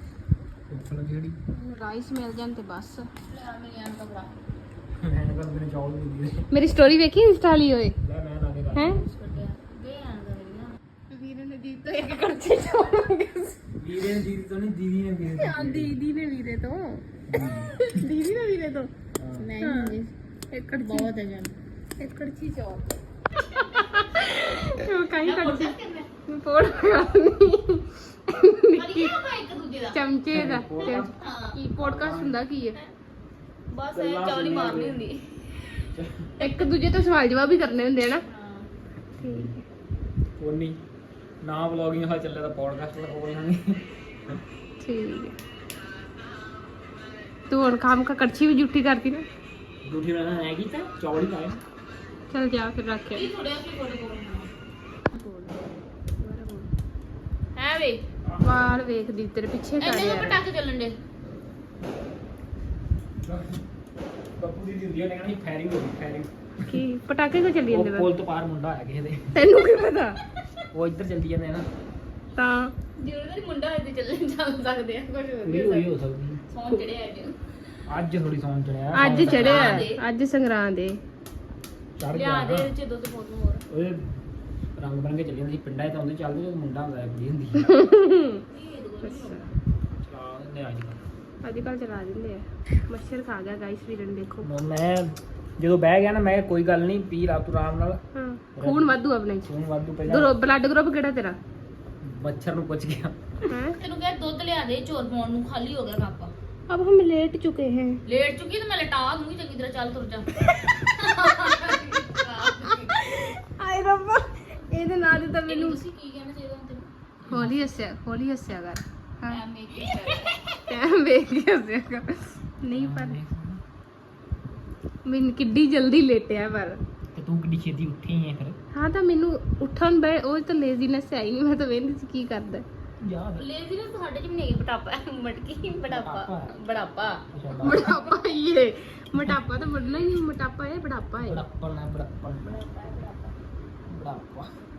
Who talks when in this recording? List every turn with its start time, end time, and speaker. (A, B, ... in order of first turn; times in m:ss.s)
0:00.7-0:01.4 A
0:01.5-0:03.1 B
0:03.2-0:04.4 C
0:05.0-0:06.5 A
0:06.5-0:08.0 B
0:08.0-0:09.0 A
0:08.7-0:09.0 B
0:08.8-0:10.8 C
0:11.1-0:14.1 B
0:13.8-0:16.0 A
0:15.2-0:18.9 B
0:17.3-0:17.8 A
0:19.2-0:19.5 A
0:19.4-0:20.1 C
0:19.6-0:20.0 B
0:20.5-0:21.1 B
0:20.7-0:21.5 C
0:22.0-0:22.9 B
0:23.7-0:29.2 B
0:25.0-0:26.1 C
0:28.7-0:31.6 C
0:29.9-0:32.8 B
0:30.3-0:31.2 A
0:31.7-0:32.4 A
0:33.7-0:35.8 C
0:33.9-0:35.0 A
0:35.9-0:36.3 A
0:36.4-0:38.2 B
0:36.4-0:36.8 C
0:38.1-0:38.7 C
0:39.2-0:39.6 B
0:39.2-0:39.5 A
0:40.4-0:40.8 A
0:41.4-0:44.4 A
0:44.8-0:45.3 B
0:47.5-0:49.2 B
0:49.8-0:51.6 A
0:52.3-0:53.3 B
0:53.1-0:54.5 C
0:55.1-0:55.7 B
0:56.2-0:56.7 B
0:57.5-0:58.0 C
0:58.2-0:58.5 A
0:58.4-1:00.4 B
0:59.8-1:01.0 C
1:03.2-1:03.6 A
1:04.4-1:06.8 A
1:06.6-1:08.1 B
1:07.7-1:09.3 A
1:09.3-1:10.2 B
1:10.7-1:11.7 A
1:12.4-1:12.7 B
1:13.0-1:16.0 C
1:15.4-1:16.4 A
1:16.5-1:17.4 C
1:17.9-1:19.9 A
1:18.9-1:21.0 B
1:19.0-1:20.0 C
1:22.0-1:22.7 A
1:22.1-1:23.6 C
1:23.7-1:24.2 A
1:24.8-1:27.8 A
1:27.6-1:28.4 B
1:28.4-1:29.5 C
1:29.0-1:29.5 B
1:30.0-1:31.0 A
1:31.4-1:34.5 B
1:34.4-1:38.0 A
1:38.1-1:39.5 B
1:38.6-1:40.3 A
1:40.0-1:41.4 B
1:42.0-1:43.2 A
1:43.5-1:43.8 B
1:43.7-1:46.3 C
1:46.7-1:48.0 B
1:48.0-1:53.1 C
1:52.7-1:55.8 B
1:55.4-1:56.9 C
1:57.3-1:57.6 A
1:57.3-1:59.4 B
1:59.2-2:00.6 C
2:00.5-2:03.2 B
2:02.7-2:03.6 A
2:05.0-2:06.8 B
2:07.1-2:08.6 A
2:08.7-2:12.6 B
2:13.0-2:13.4 A
2:13.4-2:18.1 C
2:15.9-2:16.6 A
2:17.3-2:17.9 A
2:17.6-2:21.4 B
2:21.2-2:22.6 A
2:22.4-2:23.4 C
2:23.9-2:24.5 A